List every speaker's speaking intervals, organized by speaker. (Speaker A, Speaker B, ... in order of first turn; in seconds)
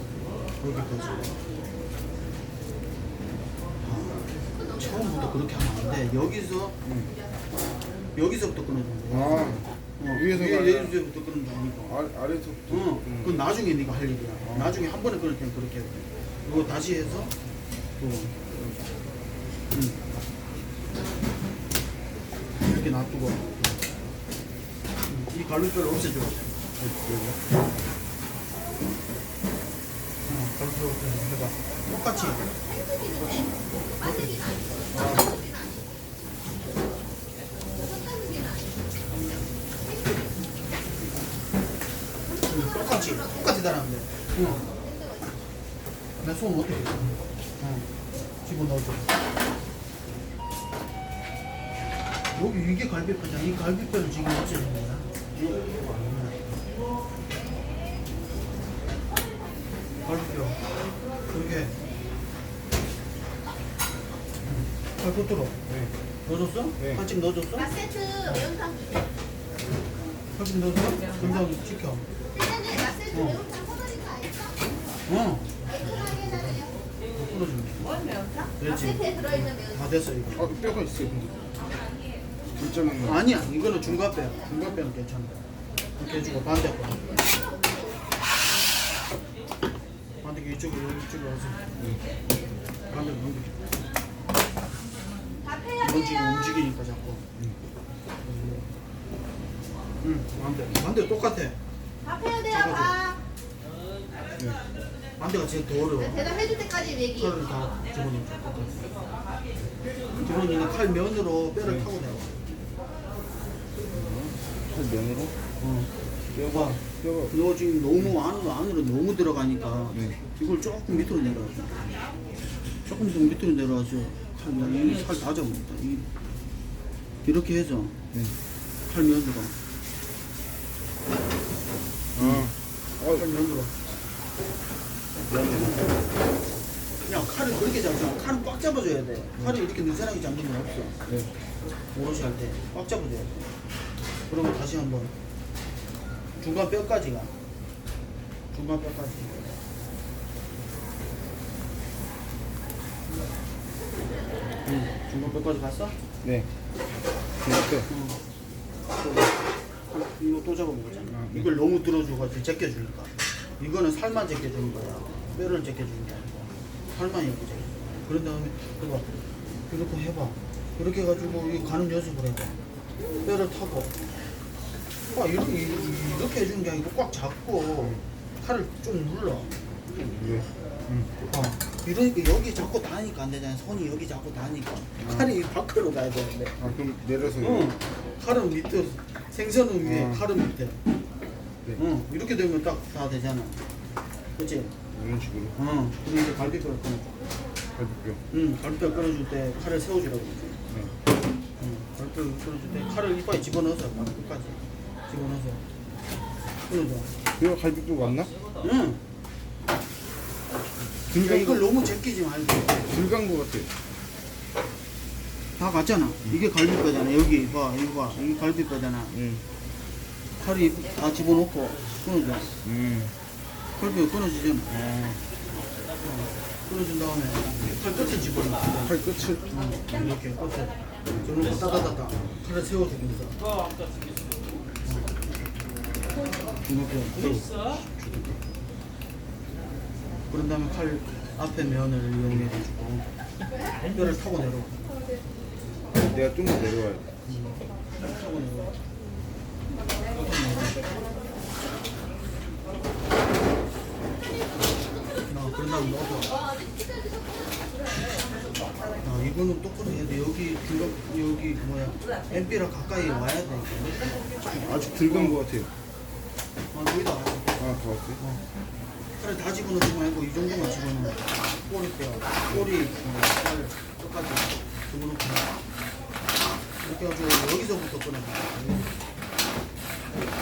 Speaker A: 0.6-1.3, 3.8-6.8, 8.1-12.0, 12.7-17.3, 18.0-18.9, 19.7-20.0, 22.6-23.5, 25.1-26.5, 30.2-32.4, 34.0-35.2, 42.4-44.6, 46.2-47.9, 48.4-49.1, 52.3-56.4, 60.0-60.6, 61.3-61.7, 64.4-65.6, 66.2-68.5, 70.3-72.0, 73.1-73.5, 75.1-78.0, 78.6-80.5, 83.0-85.4, 86.0-87.0, 90.2-91.8, 92.9-93.8, 95.8-97.2, 98.2-98.7, 100.0-101.6, 102.4-103.0, 105.2-106.5, 107.0-109.0, 110.2-112.3, 115.6-121.8, 122.8-126.1, 127.2-128.0, 128.9-129.5, 132.2-132.5, 133.1-133.7, 135.3-136.0, 137.0-140.9, 141.9-143.4, 144.3-145.1, 146.4-147.3, 148.5-149.5, 154.6-156.0, 157.9-158.2, 159.0-159.4, 159.9-169.1, 169.7-172.6, 173.2-173.9, 175.1-179.5, 181.3-186.5, 187.3-190.8, 191.8-193.6, 194.4-194.7, 195.5-197.2, 198.3-200.6, 201.6-205.6, 206.7-207.1, 208.6-209.0, 211.1-212.9, 215.6-219.2, 220.4-222.5, 223.8-224.7, 226.0-233.4, 234.8-235.1, 236.6-238.4, 240.3-243.1, 243.9-244.8, 247.2-248.8, 250.1-250.8, 255.3-256.4, 259.0-264.4, 265.0-265.4, 266.7-268.4, 269.2-275.5, 276.8-278.9
Speaker B: 6.8-7.1, 9.1-10.9, 11.9-13.3, 26.8-27.4, 34.9-35.3, 80.4-81.4, 82.5-83.2, 113.9-115.3, 116.4-117.3, 132.2-133.2, 135.3-135.8, 141.0-141.3, 156.2-156.5, 157.4-157.9, 161.1-161.5, 180.0-181.1, 185.0-185.3, 186.6-187.8, 189.8-190.2, 194.9-195.5, 197.7-198.2, 207.4-208.3, 211.1-211.7, 212.9-213.7, 219.1-219.4, 222.6-223.1, 224.7-225.2, 228.8-229.5, 246.0-247.1, 264.5-265.7, 267.6-268.2
Speaker C: 32.8-33.2, 35.2-35.7, 38.0-38.6, 67.7-69.0, 72.3-74.6, 102.1-102.4, 106.4-107.1, 256.5-257.3